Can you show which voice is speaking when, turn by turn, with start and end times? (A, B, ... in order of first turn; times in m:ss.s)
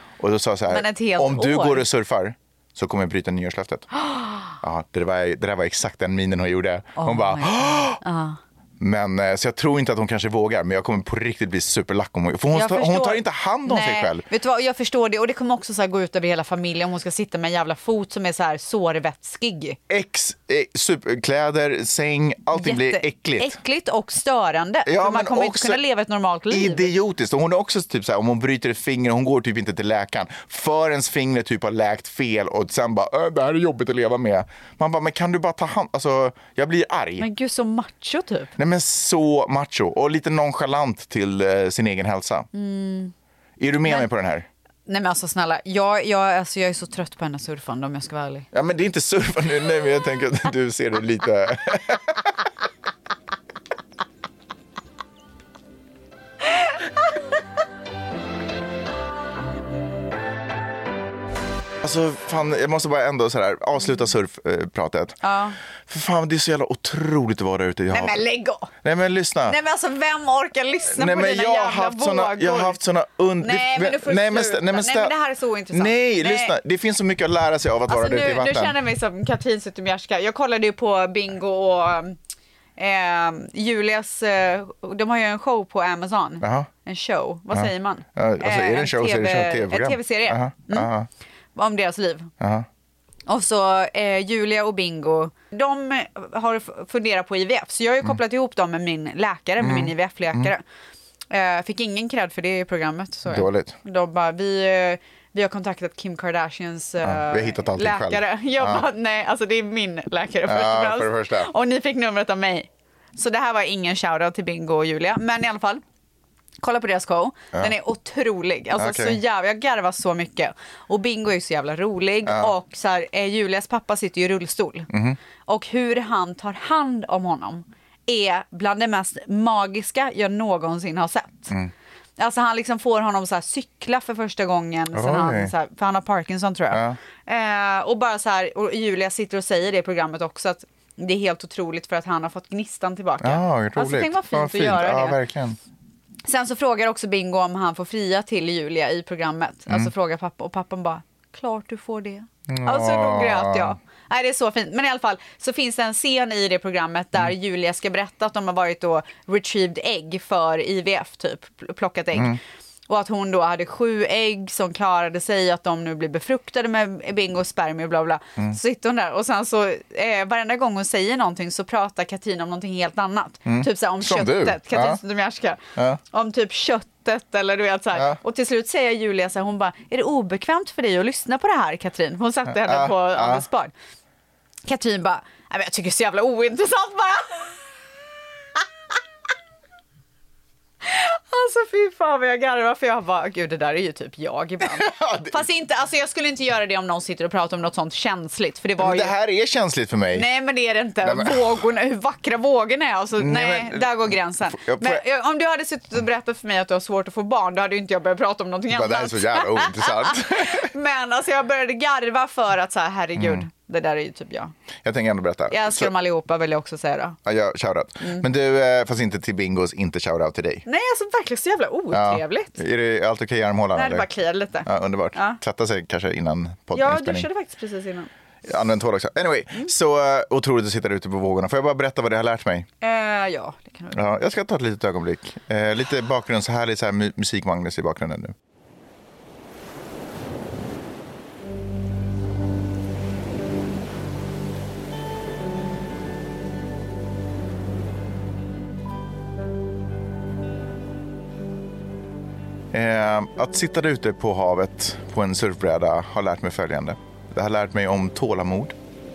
0:00.2-0:03.9 A
0:00.7-0:01.9 B
0:04.0-0:04.6 B
0:04.6-0:08.0 A
0:07.0-0:08.4 B
0:08.8-0:14.2 A
0:12.5-0:19.8 B
0:19.9-0:23.6 A
0:22.6-0:26.9 B
0:24.9-0:25.8 A
0:26.5-0:37.3 A
0:37.2-0:38.6 B
0:38.6-0:42.5 A
0:42.5-0:43.1 B
0:43.6-0:44.5 A
0:44.9-0:48.5 B
0:48.5-0:52.3 A
1:01.8-1:05.2 A
1:05.2-1:05.6 B
1:05.9-1:08.2 A
1:07.9-1:08.7 B
1:08.8-1:09.6 A
1:09.5-1:12.8 B
1:10.9-1:15.1 A
1:13.4-1:16.6 B
1:15.7-1:18.8 A
1:17.9-1:22.2 B
1:22.8-1:30.9 B
1:26.4-1:26.7 A
1:27.5-1:31.1 A
1:31.6-1:32.3 B
1:32.4-1:32.7 A
1:33.3-1:40.6 B
1:39.6-1:40.5 A
1:41.3-1:55.8 B
1:43.3-1:43.8 A
1:47.0-1:48.8 A
1:50.4-1:51.5 A
1:56.6-2:04.9 B
1:58.8-1:59.2 A
2:02.3-2:02.5 A
2:04.9-2:05.2 A
2:05.5-2:11.5 B
2:12.2-2:25.2 B
2:14.9-2:15.5 A
2:16.7-2:17.0 A
2:23.2-2:25.6 A
2:26.2-3:03.7 B
2:32.5-2:33.8 A
2:53.5-2:55.0 A
3:02.5-3:03.4 A
3:04.6-3:07.6 B
3:10.8-3:19.1 B
3:14.6-3:15.4 A
3:18.8-3:20.3 A
3:20.1-3:34.5 B
3:21.0-3:21.6 A
3:23.2-3:25.0 A
3:28.7-3:30.7 A
3:33.2-3:33.5 A
3:34.8-3:35.9 A
3:35.5-3:37.2 B
3:37.3-3:40.6 A
3:40.7-3:42.6 B
3:41.9-3:44.1 A
3:43.8-3:45.4 B
3:44.6-3:47.3 A
3:46.7-3:48.1 B
3:48.4-3:52.7 A
3:52.8-3:54.0 B
3:53.9-3:58.3 A
4:12.7-4:18.8 A